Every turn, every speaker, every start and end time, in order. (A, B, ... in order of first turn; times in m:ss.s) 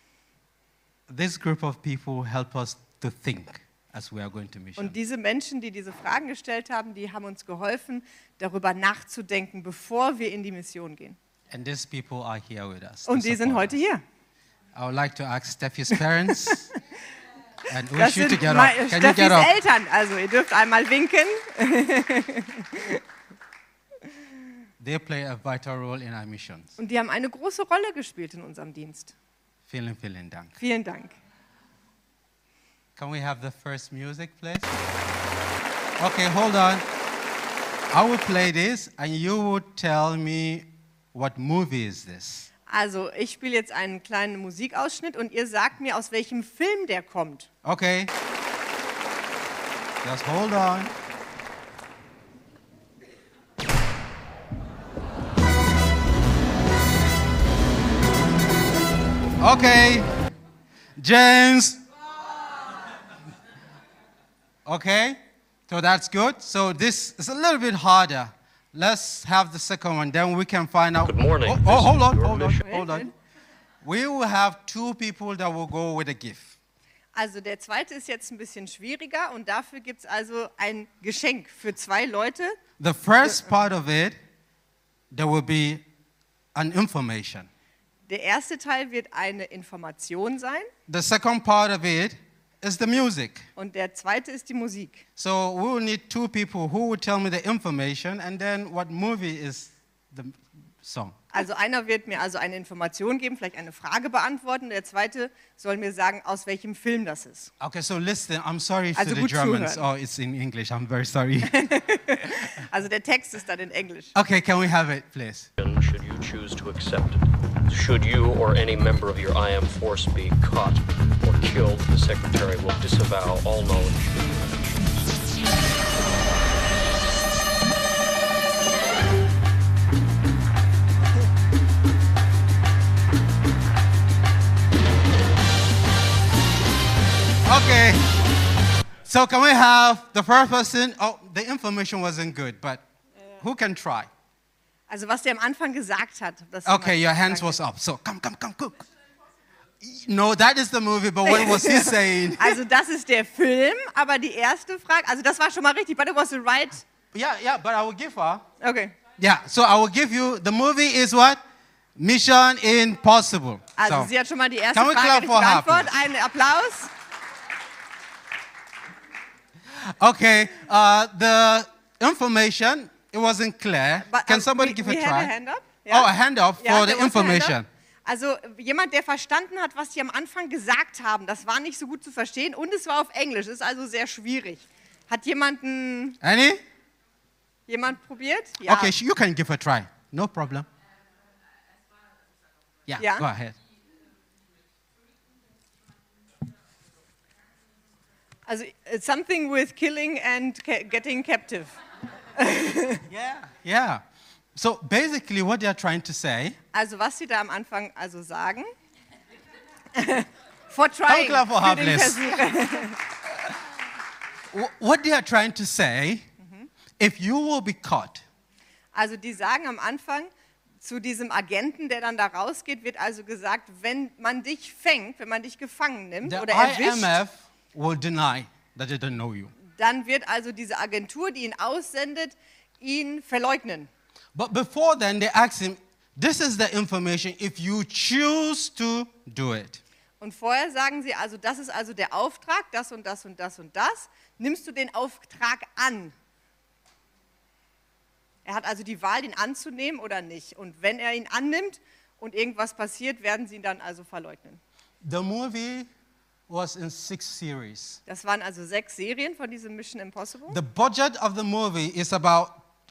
0:01.1-0:05.0 A
0:04.8-0:11.2 B
0:11.5-0:13.8 A
0:13.1-0:14.0 B
0:14.7-0:16.7 A
0:17.7-0:19.5 A
0:17.9-0:23.0 B
0:24.8-0:26.8 A
0:26.8-0:29.1 B
0:29.7-0:30.6 A
0:30.6-0:31.1 B
0:33.0-0:34.8 A
0:36.0-0:36.8 A
0:37.9-0:42.5 A
0:42.7-0:47.5 B
0:47.6-0:48.1 A
0:50.0-0:50.9 A
0:59.4-1:00.1 A
1:01.0-1:01.8 A
1:04.6-1:13.1 A
1:11.0-1:12.9 C
1:12.7-1:13.1 B
1:13.8-1:16.6 A
1:17.1-1:22.6 B
1:22.8-1:24.2 A
1:25.1-1:25.8 A
1:26.5-1:27.5 A
1:28.1-1:30.7 B
1:30.9-1:33.4 A
1:33.6-1:35.0 B
1:35.2-1:41.4 A
1:41.3-1:47.5 B
1:47.6-1:51.8 A
1:49.0-1:49.8 B
1:51.4-1:54.1 B
1:54.1-1:55.5 A
1:55.6-2:05.0 C
2:17.4-2:18.1 A
2:19.0-2:22.8 A
2:23.4-2:24.1 A
2:24.9-2:27.6 B
2:26.6-2:28.8 A
2:29.8-2:32.6 A
2:31.2-2:36.8 B
2:37.1-2:38.4 A
2:38.6-2:38.9 B
2:39.2-2:41.4 A
2:42.0-2:44.1 A
2:43.8-2:46.9 B
2:44.7-2:45.9 A
2:49.7-2:55.3 A
2:54.0-3:06.2 B
2:55.9-2:57.7 A
3:06.2-3:06.6 A
3:07.7-3:08.9 B
3:08.6-3:10.6 A
3:12.9-3:13.6 A
3:13.0-3:13.3 B
3:18.4-3:21.7 B
3:22.3-3:23.0 B
3:23.1-3:24.0 A
3:24.5-3:26.6 A
3:26.7-3:28.7 B
3:29.9-3:33.0 B
3:31.1-3:32.5 A
3:34.5-3:36.2 A
3:36.4-3:36.7 B
3:37.0-3:38.2 A
3:38.9-3:40.3 B
3:40.8-3:47.2 B
3:46.2-3:49.5 A
3:49.7-3:53.9 B
3:54.3-3:59.8 A
4:00.2-4:06.1 B
4:08.4-4:14.6 B
4:15.0-4:15.9 A
4:16.5-4:18.0 A
4:18.1-4:20.6 B
4:20.5-4:22.6 A